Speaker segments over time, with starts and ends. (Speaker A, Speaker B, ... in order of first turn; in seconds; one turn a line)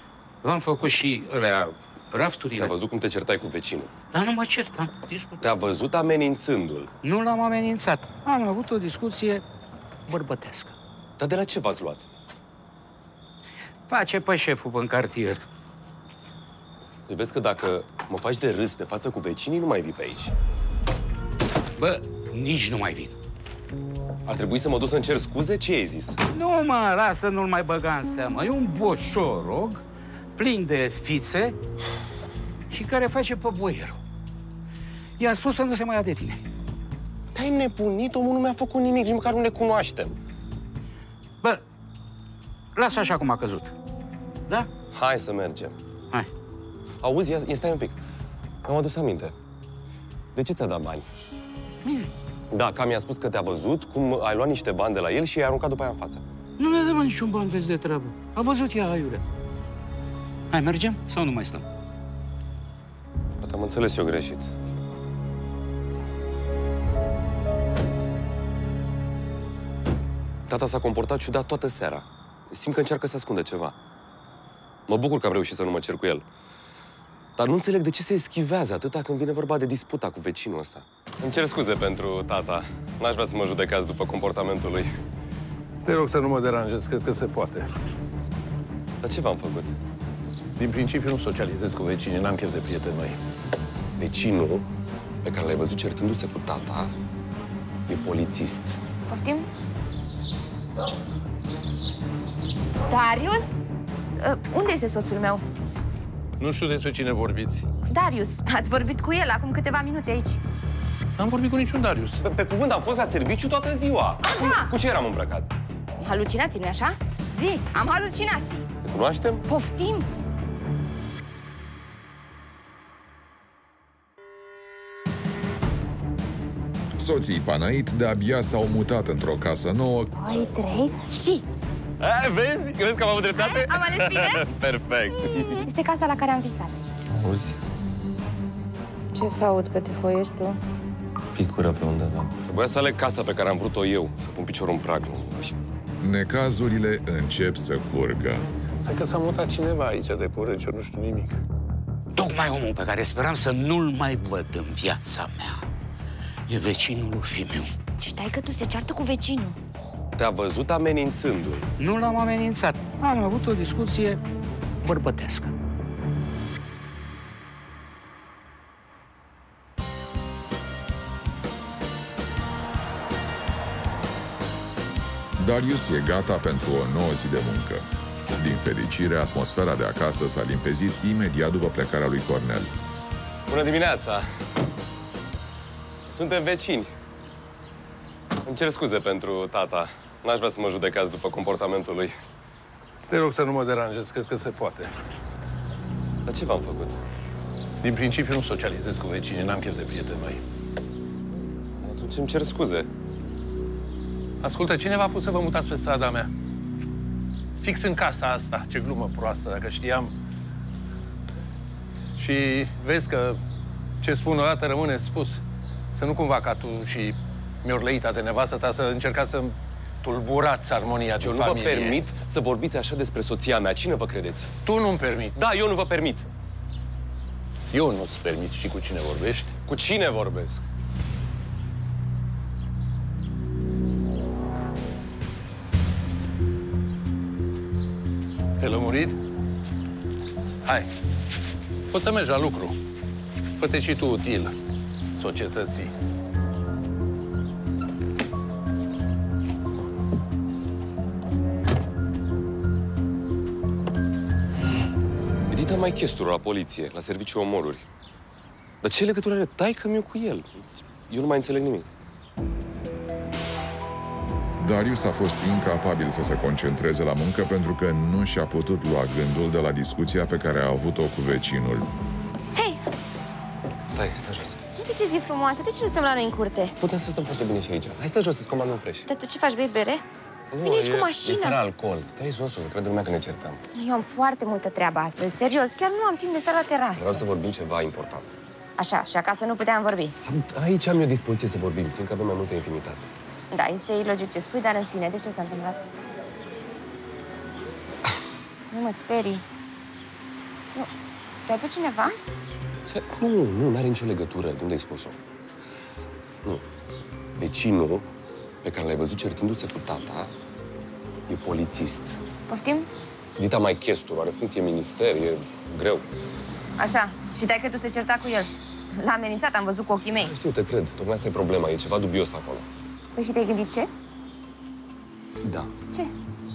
Speaker A: 0.4-2.7
Speaker B: 2.5-3.9
Speaker A: 4.1-5.4
Speaker B: 5.4-6.9
Speaker A: 7.0-9.4
Speaker A: 10.1-10.7
Speaker B: 11.2-12.1
Speaker A: 13.9-15.4
Speaker B: 17.1-20.3
Speaker A: 21.8-23.1
Speaker B: 24.2-26.2
Speaker A: 26.3-29.8
Speaker A: 30.4-31.6
Speaker A: 32.7-34.0
Speaker A: 35.2-36.4
Speaker B: 37.3-40.1
Speaker A: 42.7-43.7
Speaker B: 44.9-45.8
Speaker B: 47.0-48.0
Speaker B: 48.6-49.3
Speaker B: 50.3-51.0
Speaker A: 51.8-52.1
Speaker B: 52.5-56.2
Speaker A: 56.6-59.2
Speaker A: 60.5-61.6
Speaker B: 63.4-64.5
Speaker B: 70.5-73.8
Speaker B: 74.9-76.2
Speaker B: 77.4-84.9
Speaker C: 85.8-87.7
Speaker B: 89.0-89.8
Speaker C: 90.6-93.2
Speaker B: 94.0-94.7
Speaker B: 95.2-96.9
Speaker B: 97.9-98.8
Speaker D: 99.1-99.5
Speaker D: 102.9-103.5
Speaker D: 104.2-105.4
Speaker C: 106.4-107.7
Speaker D: 107.9-110.4
Speaker C: 111.2-112.2
Speaker B: 112.2-115.5
Speaker D: 114.2-114.7
Speaker D: 116.0-118.7
Speaker B: 118.8-119.5
Speaker D: 119.5-120.1
Speaker E: 127.0-130.1
Speaker D: 130.2-131.4
Speaker B: 132.0-135.6
Speaker D: 133.3-134.5
Speaker D: 135.2-136.8
Speaker B: 137.2-137.6
Speaker D: 139.1-140.6
Speaker B: 141.3-145.6
Speaker E: 146.0-148.4
Speaker C: 148.8-151.4
Speaker A: 152.1-155.7
Speaker A: 156.5-157.8
Speaker D: 158.0-159.6
Speaker B: 160.2-161.7
Speaker A: 161.8-164.2
Speaker A: 164.8-165.5
Speaker E: 175.4-182.7
Speaker B: 183.5-184.2
Speaker B: 186.1-186.9
Speaker B: 188.4-192.1
Speaker C: 193.1-194.9
Speaker B: 196.2-197.0
Speaker C: 197.8-200.4
Speaker B: 201.8-202.9
Speaker C: 204.4-206.3
Speaker C: 207.6-210.1
Speaker C: 212.2-213.4
Speaker C: 214.0-222.0
Speaker B: 221.2-224.5
Speaker C: 224.7-225.4
Speaker B: 225.3-226.3
Speaker C: 227.7-229.5
Speaker B: 229.7-230.7
Speaker C: 238.6-239.2
Speaker C: 241.9-242.8
Speaker C: 243.6-244.5
Speaker C: 245.1-245.9
Speaker B: 255.5-257.9
Speaker B: 258.8-261.9
Speaker E: 264.6-271.9
Speaker D: 272.5-272.9
Speaker B: 273.9-274.6
Speaker D: 274.7-276.8
Speaker B: 276.8-279.1
Speaker D: 279.1-280.0
Speaker B: 280.5-283.6
Speaker D: 280.6-281.6
Speaker D: 283.7-287.2
Speaker B: 286.9-288.3
Speaker D: 288.8-290.1
Speaker B: 290.2-293.1
Speaker D: 293.5-295.9
Speaker D: 298.7-299.4
Speaker D: 301.4-302.2
Speaker B: 302.9-305.2
Speaker B: 307.4-308.1
Speaker B: 308.6-310.3
Speaker B: 311.3-312.2
Speaker D: 312.5-312.9
Speaker B: 313.4-316.1
Speaker D: 316.8-320.3
Speaker B: 320.2-322.7
Speaker D: 323.1-323.9
Speaker B: 325.4-325.7